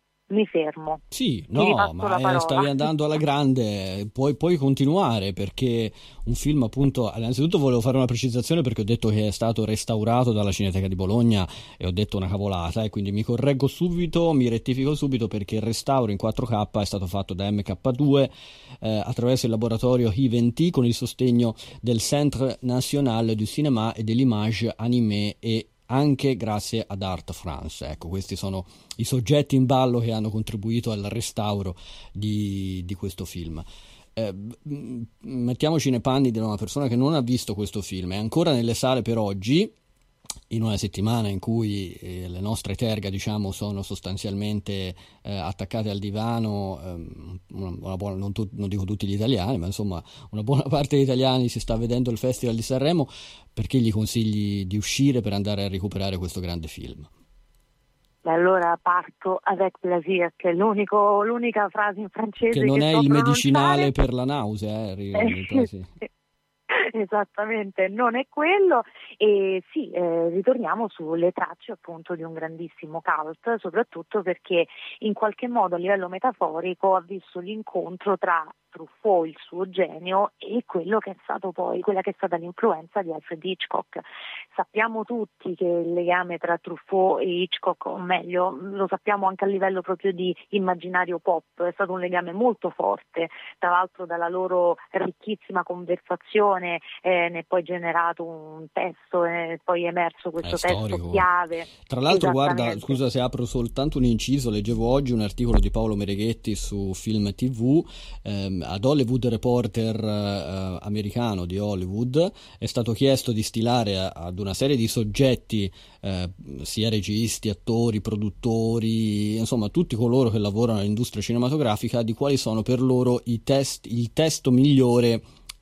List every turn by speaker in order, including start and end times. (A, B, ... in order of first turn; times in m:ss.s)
0:00.3-0:01.0 A
0:01.1-0:18.3 B
0:01.5-0:02.9 A
0:18.8-0:33.6 B
0:34.2-0:39.7 B
0:40.5-0:57.1 B
0:58.2-1:03.9 A
1:02.5-1:05.9 B
1:05.2-1:06.1 A
1:06.7-1:43.0 A
1:40.4-1:41.3 B
1:41.9-2:05.2 B